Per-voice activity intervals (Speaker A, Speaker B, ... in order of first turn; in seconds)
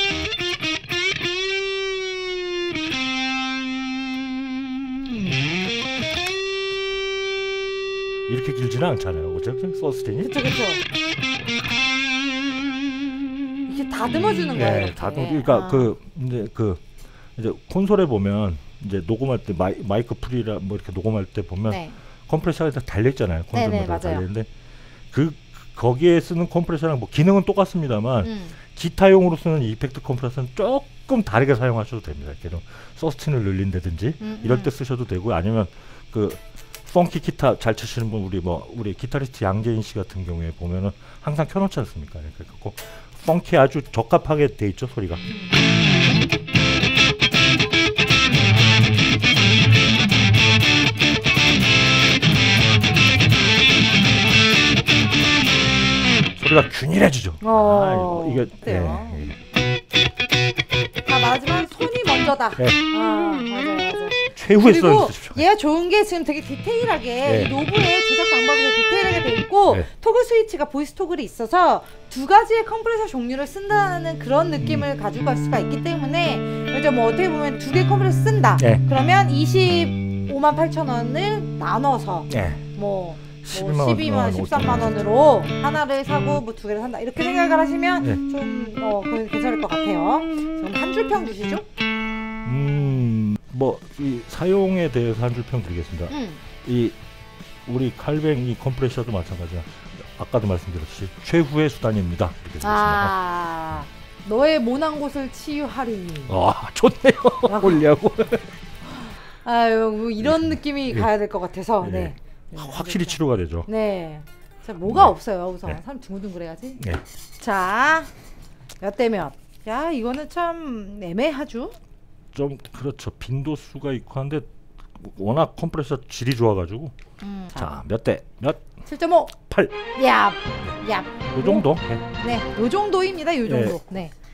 Speaker A: 8.3-10.3, 14.5-16.8, 17.4-24.5, 25.1-45.2, 56.4-59.4, 64.3-65.4, 67.2-67.6, 82.3-82.7, 83.4-85.3, 92.5-97.0, 97.7-103.1, 106.3-108.5, 110.2-111.1, 111.8-113.7, 114.8-115.2, 122.3-126.9, 127.6-128.6, 129.4-129.8, 131.3-132.0, 133.5-133.8
Speaker B: 10.2-10.8, 13.7-15.9, 21.7-22.0, 23.5-24.2, 28.2-28.6, 34.2-34.7, 57.4-59.3, 61.1-91.6, 96.1-96.4, 102.6-106.4, 107.5-107.8, 109.4-116.8, 117.4-118.1, 118.8-121.8, 127.2-127.7, 128.8-129.3, 129.9-131.7, 132.2-134.1